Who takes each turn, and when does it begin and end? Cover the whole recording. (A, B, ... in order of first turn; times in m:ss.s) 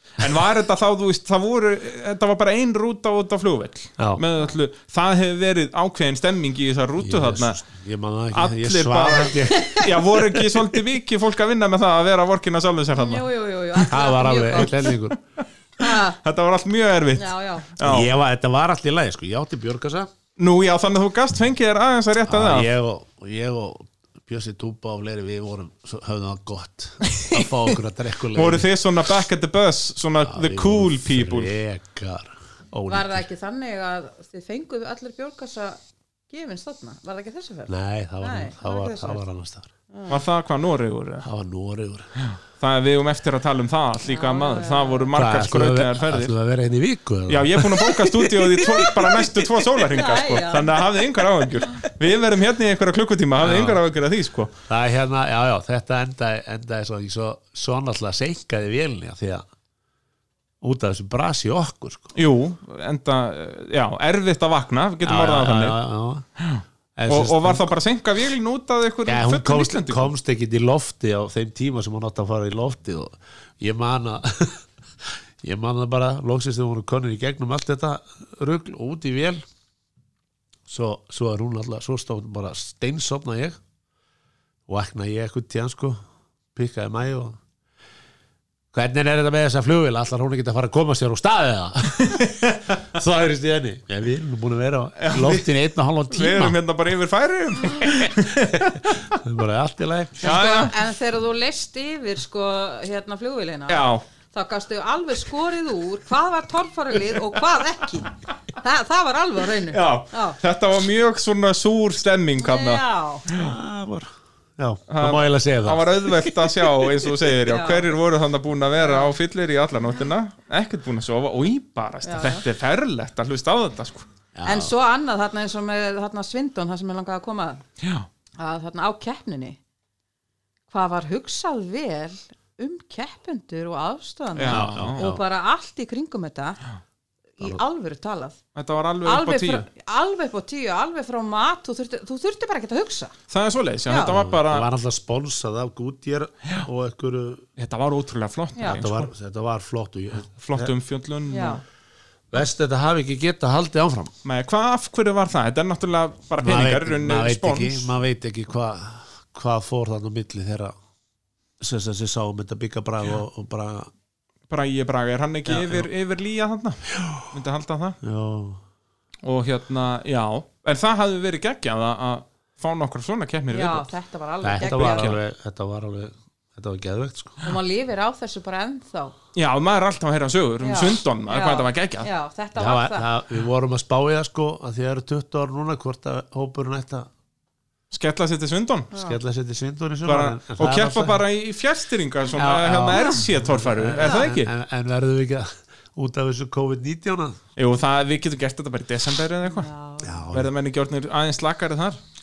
0:00.2-0:07.6 A
0:07.0-0:10.6 B
0:08.3-0:13.2 A
0:12.9-0:14.9 C
0:13.8-0:15.2 B
0:15.8-0:16.2 C
0:15.8-0:18.1 A
0:17.2-0:17.7 C
0:17.8-0:20.1 B
0:20.4-0:22.7 A
0:22.3-0:28.7 B
0:28.3-0:31.5 A
0:30.2-0:33.3 B
0:32.9-0:35.8 C
0:36.3-0:39.2 C
0:37.7-0:39.7 B
0:40.1-0:41.3 A
0:41.2-0:42.1 B
0:42.2-0:46.3 A
0:44.1-0:45.1 C
0:45.1-0:49.4 B
0:47.3-0:54.5 A
0:49.9-0:50.8 C
0:53.4-0:53.8 B
0:54.7-0:59.4 B
1:00.6-1:02.1 B
1:02.1-1:05.8 A
1:05.0-1:06.2 B
1:06.4-1:10.1 A
1:07.0-1:07.7 B
1:09.0-1:19.4 B
1:20.7-1:23.6 B
1:24.7-1:26.0 B
1:26.5-1:27.4 B
1:28.7-1:36.6 B
1:35.0-1:35.5 A
1:36.1-1:39.1 A
1:38.1-1:40.4 B
1:40.2-1:40.7 A
1:40.2-1:50.4 C
1:43.7-1:44.0 A
1:49.7-1:53.5 A
1:52.4-1:53.2 C
1:53.3-1:56.4 B
1:54.9-2:04.1 A
1:57.5-1:57.9 C
1:58.8-1:59.1 C
2:02.0-2:02.4 C
2:04.3-2:04.7 B
2:04.4-2:07.6 C
2:07.8-2:08.1 A
2:08.4-2:09.6 C
2:10.7-2:16.6 C
2:14.4-2:15.0 A
2:14.5-2:15.2 B
2:17.4-2:18.4 C
2:18.5-2:19.6 A
2:19.0-2:23.1 C
2:23.3-2:24.7 A
2:23.9-2:24.2 C
2:24.0-2:27.4 B
2:27.6-2:29.1 A
2:28.6-2:30.7 B
2:30.4-2:31.6 A
2:31.3-2:31.6 C
2:32.3-2:34.1 B
2:34.2-2:37.9 A
2:36.4-2:40.7 B
2:41.6-2:43.9 B
2:44.5-2:48.0 A
2:45.4-2:45.9 B
2:46.9-2:47.3 B
2:48.0-2:48.6 B
2:49.2-2:53.9 A
2:53.5-2:55.2 C
2:54.4-2:57.5 B
2:54.6-2:55.2 A
2:57.4-2:59.1 C
2:59.3-3:02.1 A
3:00.6-3:03.1 C
3:02.6-3:07.1 B
3:07.9-3:08.9 A
3:08.9-3:09.2 C
3:08.9-3:11.2 B
3:10.0-3:14.5 A
3:12.4-3:17.4 B
3:12.9-3:13.2 C
3:14.0-3:14.4 C
3:17.6-3:19.7 A
3:19.4-3:20.2 C
3:20.0-3:20.5 B
3:20.3-3:22.0 A